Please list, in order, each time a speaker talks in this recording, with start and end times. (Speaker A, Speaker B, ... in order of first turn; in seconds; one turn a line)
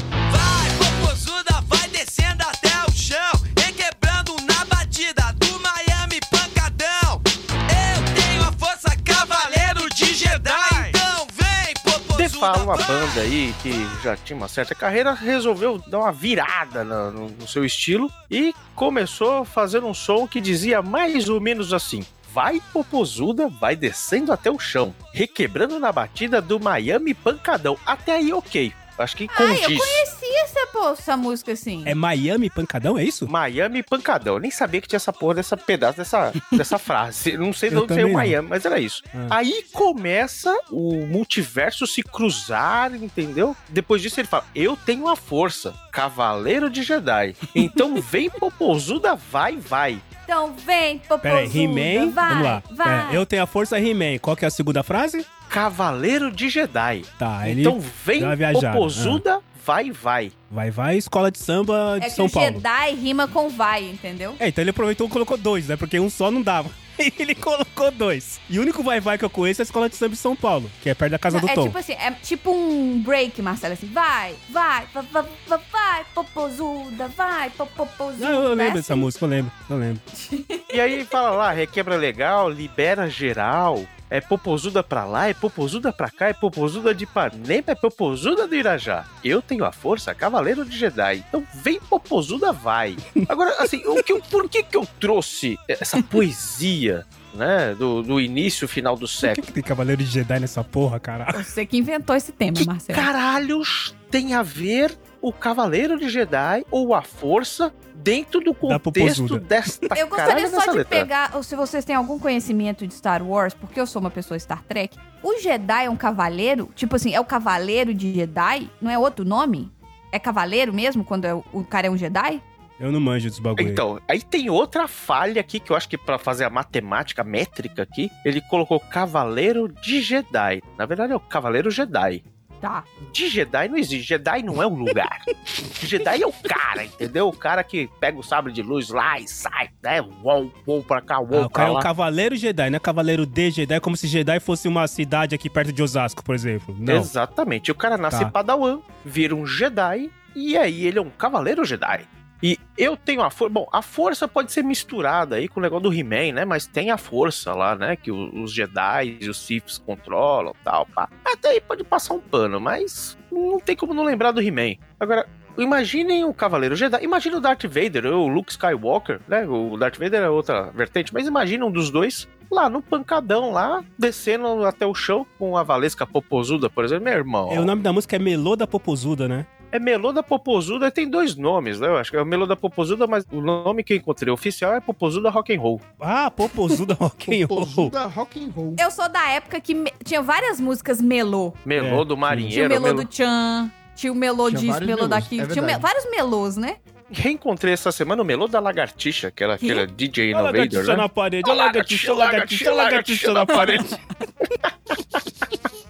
Speaker A: 0.3-13.2
Speaker B: 12.1-30.0
Speaker C: 29.3-31.9
Speaker D: 31.9-33.3
Speaker B: 33.3-50.0
Speaker D: 37.7-38.4
Speaker C: 50.3-53.2
Speaker D: 51.2-55.2
Speaker B: 55.5-60.3
Speaker D: 57.2-59.2
Speaker D: 60.5-62.6
Speaker C: 62.0-64.4
Speaker D: 64.4-71.8
Speaker C: 71.3-79.1
Speaker D: 78.2-80.0
Speaker C: 80.2-80.7
Speaker B: 80.7-99.4
Speaker D: 99.2-101.5
Speaker C: 101.3-103.1
Speaker B: 102.5-111.1
Speaker D: 108.6-109.8
Speaker C: 109.9-122.4
Speaker D: 122.8-123.8
Speaker B: 123.6-132.2
Speaker B: 133.0-141.9
Speaker D: 141.3-147.1
Speaker B: 146.8-177.7
Speaker D: 177.5-179.5
Speaker B: 179.7-185.8
Speaker D: 186.0-187.9
Speaker E: 187.2-188.8
Speaker C: 188.8-191.6
Speaker B: 191.6-193.1
Speaker D: 191.8-192.5
Speaker C: 192.5-196.8
Speaker E: 194.4-195.9
Speaker B: 197.1-203.9
Speaker D: 200.3-204.0
Speaker B: 204.9-205.3